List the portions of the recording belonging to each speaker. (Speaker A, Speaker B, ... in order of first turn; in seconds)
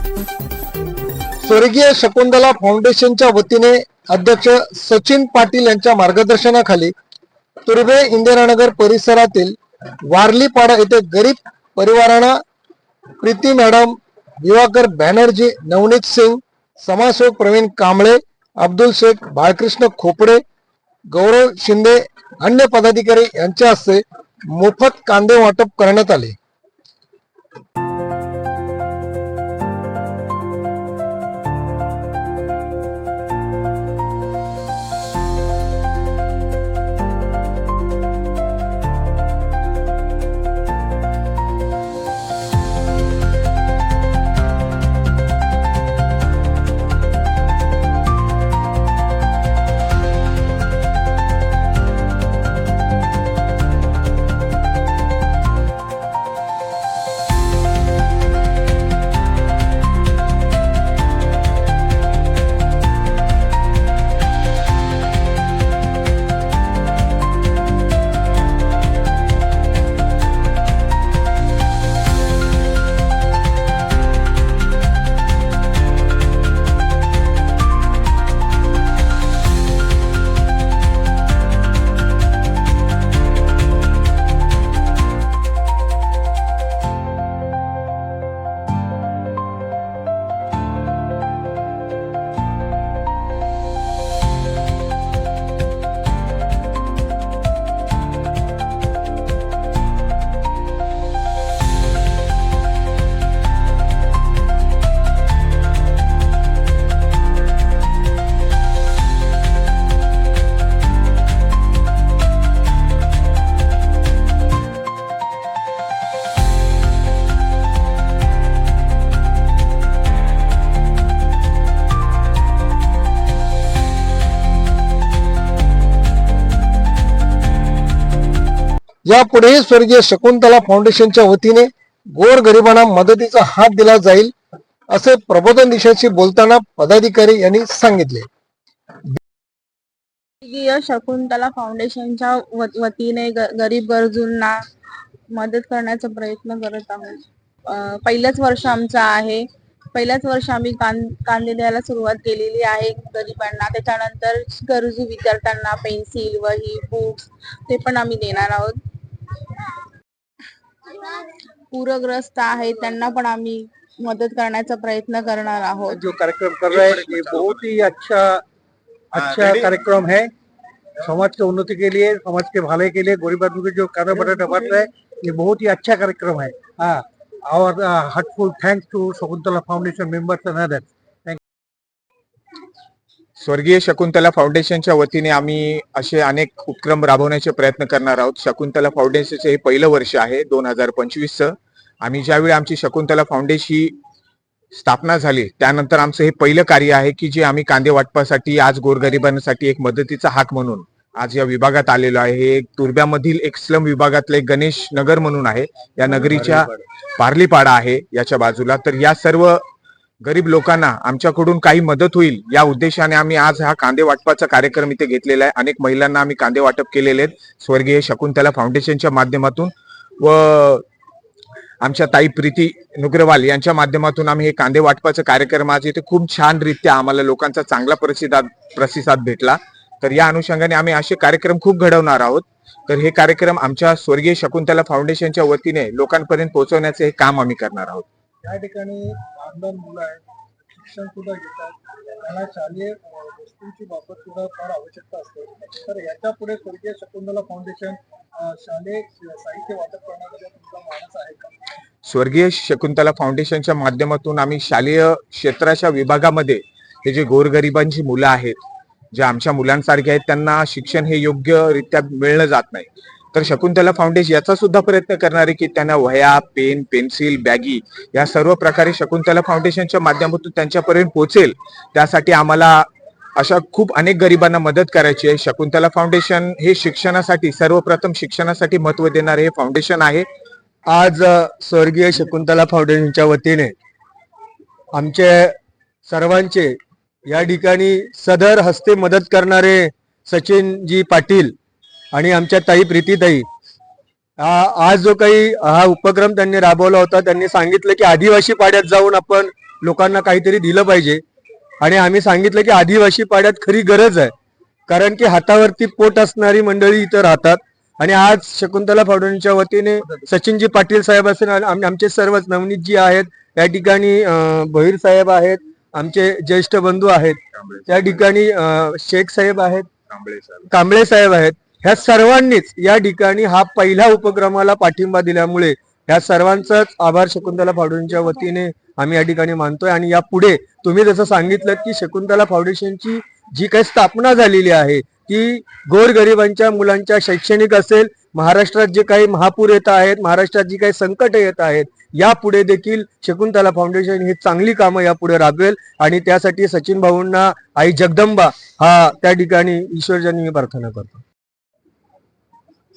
Speaker A: 1.4-6.9, 7.7-9.6, 10.1-12.4, 13.2-20.4, 21.1-26.4, 129.1-134.3, 134.9-138.3
Speaker B: 140.4-144.6, 145.3-158.8, 161.7-166.1
Speaker C: 165.9-168.4, 169.1-170.3, 171.0-181.4, 238.4-240.2, 240.7-248.0, 248.5-251.5
Speaker D: 166.9-167.5, 169.2-169.5, 183.4-194.0, 194.8-209.6, 210.2-220.8, 221.8-238.1, 252.1-258.6, 259.1-280.3, 317.6-318.2, 320.1-320.7
Speaker E: 280.9-283.7, 284.9-291.5, 292.1-293.5, 294.4-301.2, 301.8-304.3, 304.9-319.9, 320.7-351.2